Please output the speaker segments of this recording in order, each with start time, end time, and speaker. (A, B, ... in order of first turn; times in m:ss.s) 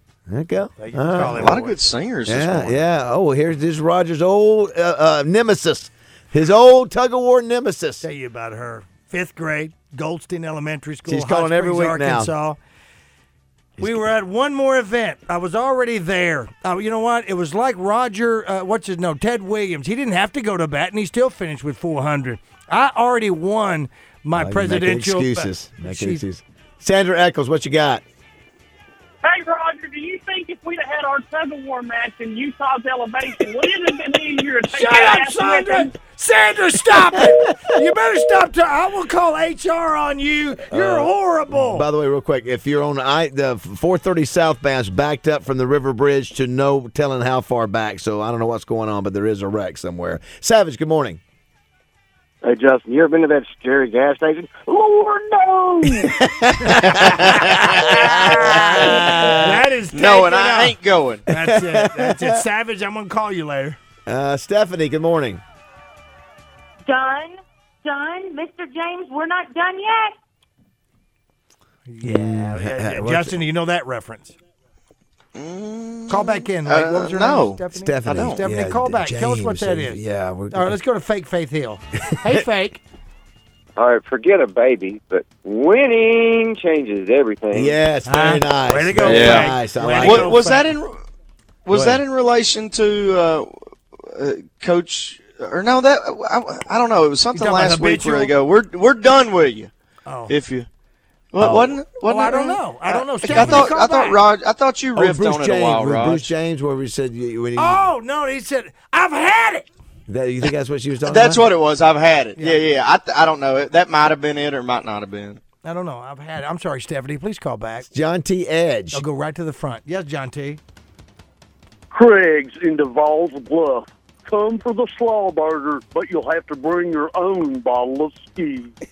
0:00.3-0:01.5 A
0:00.8-0:01.8 B
0:01.3-0:02.8 C
0:02.2-0:08.0 A
0:08.0-0:12.6 B
0:11.0-0:12.3 A
0:13.8-0:26.2 B
0:24.4-0:28.0 A
0:29.2-0:36.0 D
0:34.7-0:41.8 B
0:40.7-0:51.2 A
0:52.4-0:54.7 E
0:56.0-0:59.3 A
0:57.0-0:58.3 C
0:58.5-0:58.8 F
0:58.8-1:00.8 B
0:59.9-1:01.3 C
1:01.3-1:03.8 B
1:01.4-1:02.4 A
1:04.1-1:05.4 A
1:06.8-1:10.1 F
1:11.9-1:14.3 B
1:12.0-1:13.4 A
1:15.3-1:18.4 C
1:16.1-1:20.0 B
1:17.7-1:20.7 A
1:20.5-1:22.8 B
1:23.8-1:27.7 G
1:27.5-1:30.4 A
1:28.0-1:30.7 B
1:29.0-1:31.0 C
1:31.6-1:33.5 C
1:31.7-1:32.0 A
1:34.1-1:39.7 C
1:37.3-1:38.3 B
1:40.0-1:40.4 B
1:40.3-1:40.7 C
1:41.3-1:46.3 C
1:41.4-1:41.7 A
1:42.0-1:44.2 B
1:43.3-1:43.6 A
1:44.9-1:47.8 A
1:47.6-1:49.6 B
1:50.1-1:51.4 A
1:51.0-1:55.4 C
1:52.4-1:52.7 B
1:55.6-1:57.8 B
1:57.9-1:59.0 A
1:58.9-2:00.6 B
2:01.9-2:08.7 H